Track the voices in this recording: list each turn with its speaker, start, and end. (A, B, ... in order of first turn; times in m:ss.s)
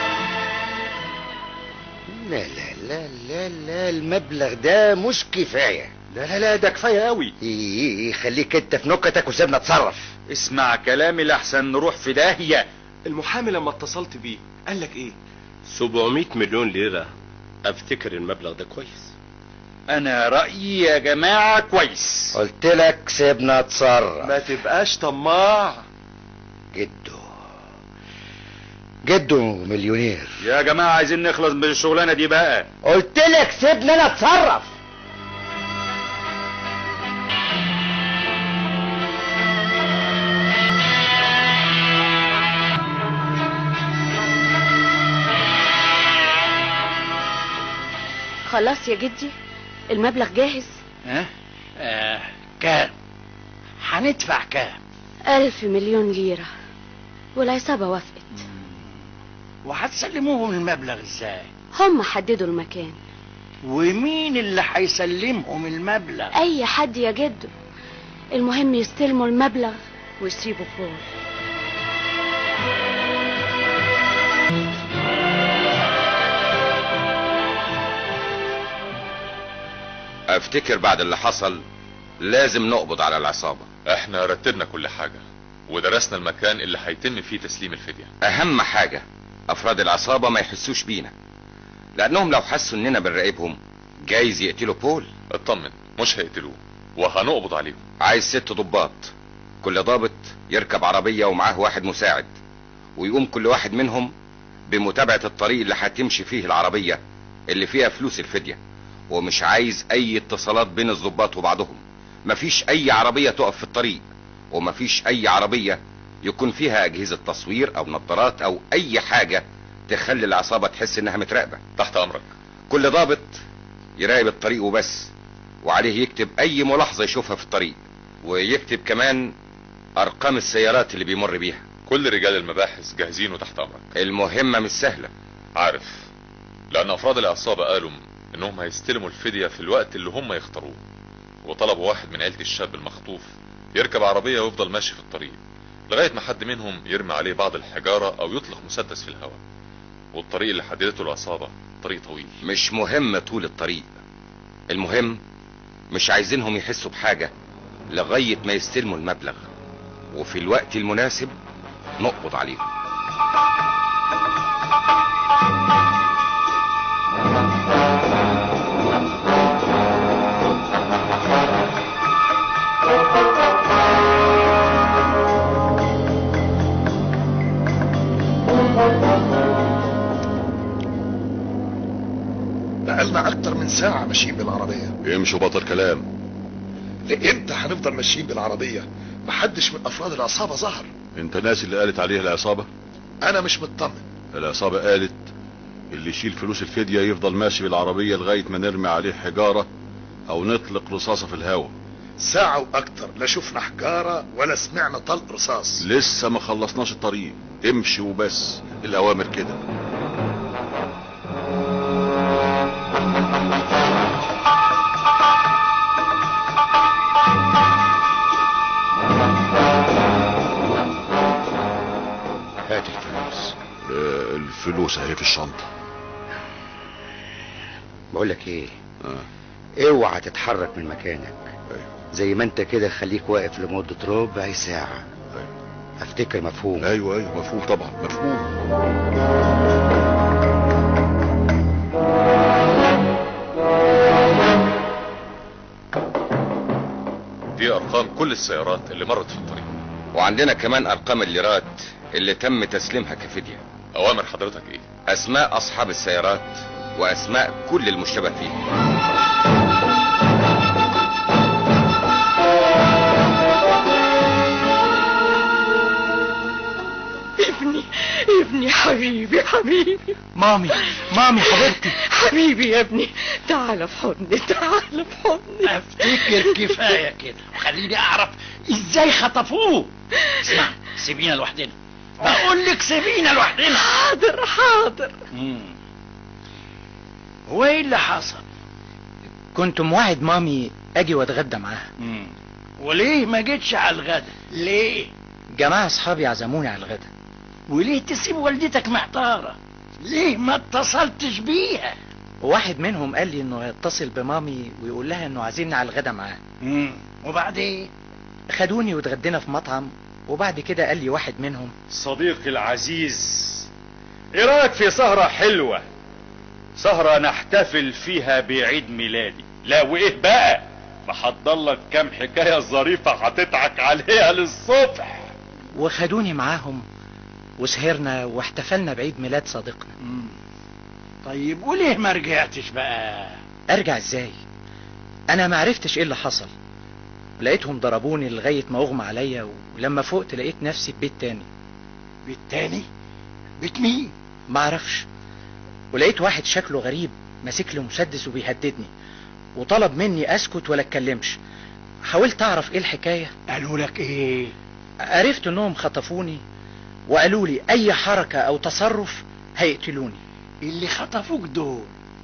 0:02.1-0:05.9 A
0:06.1-0:07.3 B
0:07.4-0:10.1 A
0:10.3-0:12.6 B
0:13.0-0:15.2 C
0:15.7-0:17.1 D
0:17.6-0:19.1 D
0:19.9-0:22.4 B
0:22.3-0:24.4 A
0:24.2-0:25.8 C
0:26.7-0:27.3 A
0:29.0-0:30.4 A
0:30.4-0:32.7 B
0:32.8-0:34.7 A
0:48.5-0:49.3 E
0:49.9-0:50.8 E
0:51.0-0:52.9 F
0:53.8-0:54.8 F
0:55.3-0:56.5 E
0:57.4-0:58.3 E
0:59.6-1:01.5 F
1:01.7-1:03.0 E
1:03.6-1:06.3 F
1:06.3-1:07.5 E
1:08.3-1:11.1 E
1:20.3-1:21.6 G
1:22.2-1:23.7 G
1:23.9-1:28.1 H
1:28.2-1:31.1 G
1:32.0-1:35.1 G
1:35.3-1:37.8 H
1:38.0-1:42.3 G
1:43.0-1:44.1 G
1:44.7-1:47.0 G
1:47.5-1:48.6 G
1:49.1-2:01.6 G
2:01.8-2:02.2 H
2:02.7-2:03.4 G
2:04.0-2:05.1 G
2:05.6-2:09.3 G
2:10.0-2:11.6 G
2:11.8-2:13.8 H
2:14.0-2:15.1 G
2:15.6-2:16.1 H
2:16.7-2:20.8 H
2:21.4-2:25.4 H
2:25.9-2:29.4 H
2:30.1-2:32.3 H
2:32.4-2:34.0 G
2:34.7-2:35.2 G
2:35.9-2:37.3 G
2:37.9-2:39.5 G
2:40.1-2:41.3 G
2:42.0-2:42.6 G
3:02.8-3:04.9 I
3:05.0-3:06.0 J
3:07.1-3:10.9 I
3:11.1-3:12.7 J
3:13.2-3:14.1 I
3:14.3-3:15.3 J
3:15.9-3:19.7 J
3:20.3-3:21.7 J
3:22.2-3:25.8 I
3:25.8-3:29.6 J
3:42.7-3:45.7 J
3:48.1-3:48.8 A
3:49.8-3:51.5 A
3:52.1-3:55.1 A
3:56.0-3:56.9 A
3:56.8-3:58.5 J
4:07.6-4:09.7 H
4:10.1-4:13.6 G
4:13.9-4:14.9 H
4:15.1-4:18.6 G
4:27.4-4:30.2 K
4:30.3-4:31.9 L
4:30.7-4:36.9 K
4:35.6-4:43.8 F
4:43.7-4:45.2 K
4:45.3-4:45.8 F
4:47.5-4:48.4 F
4:49.5-4:51.9 L
4:52.0-4:55.1 F
4:55.5-4:57.1 L
4:57.7-5:02.0 F
5:02.4-5:06.4 L
5:06.6-5:07.9 F
5:08.5-5:11.7 L
5:11.9-5:13.7 B
5:14.3-5:15.8 B
5:16.8-5:25.3 B
5:25.7-5:26.8 L
5:27.6-5:29.9 L
5:30.0-5:30.4 F
5:31.2-5:33.4 F
5:33.7-5:34.4 L
5:35.3-5:36.5 L
5:37.4-5:41.5 L
5:42.2-5:42.8 F
5:43.6-5:44.1 F
5:44.5-5:45.0 L
5:45.9-5:48.9 L
5:49.6-5:51.4 L
5:52.0-5:53.3 L
5:53.5-5:54.5 F
5:55.1-5:56.4 L
5:57.1-6:00.2 L
6:00.6-6:01.9 F